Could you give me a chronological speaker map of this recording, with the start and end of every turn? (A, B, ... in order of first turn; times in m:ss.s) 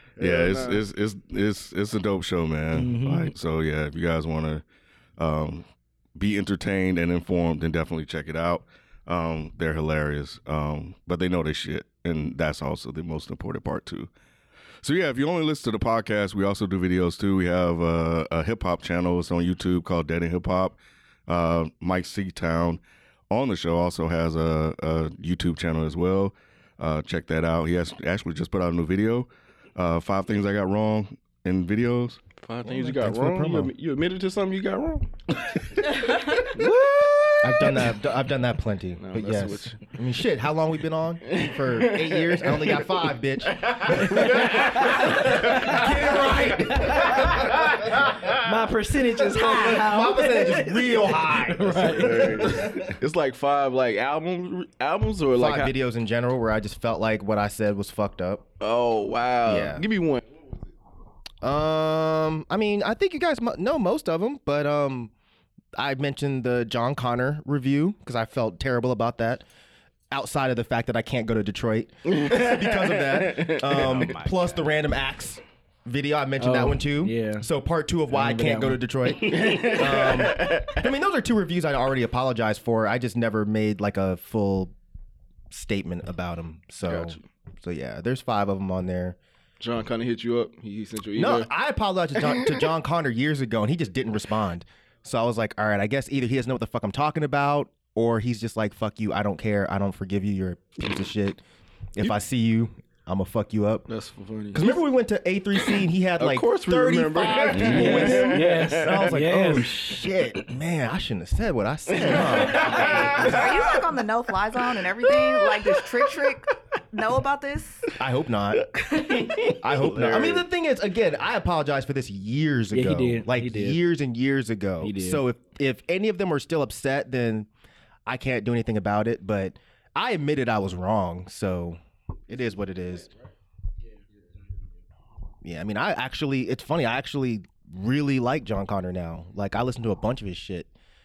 0:00.2-0:00.8 A
0:00.2-0:04.6 B
0:02.8-0:03.3 C
0:05.2-0:05.6 B
0:06.2-0:14.1 B
0:14.8-0:32.2 B
0:32.4-0:35.1 A
0:32.6-0:33.7 D
0:36.5-0:37.8 A
0:37.4-0:48.0 D
0:39.0-0:39.8 A
0:41.2-0:46.3 A
0:44.0-0:45.9 C
0:46.7-0:47.4 C
0:48.4-0:52.6 C
0:49.3-0:52.9 D
0:51.9-0:55.8 A
0:55.4-0:58.5 D
0:58.6-1:00.2 A
0:59.4-0:59.8 D
1:01.4-1:05.1 D
1:05.8-1:09.4 D
1:10.1-1:24.7 D
1:12.1-1:14.2 A
1:13.7-1:14.6 C
1:16.4-1:17.5 C
1:18.1-1:18.8 C
1:19.1-1:20.9 A
1:25.5-1:29.2 D
1:26.8-1:27.2 A
1:29.6-1:31.5 A
1:31.2-1:41.4 D
1:32.4-1:32.6 A
1:42.0-1:43.9 D
1:43.9-1:44.8 A
1:44.5-1:53.8 D
1:46.2-1:49.2 A
1:47.5-1:48.0 B
1:47.7-1:49.8 C
1:51.9-1:53.4 A
1:53.2-1:57.9 E
1:58.0-1:58.6 D
1:59.2-2:00.5 A
1:59.4-2:07.5 D
2:02.7-2:03.8 C
2:04.8-2:05.2 C
2:08.1-2:13.1 D
2:15.4-2:20.7 D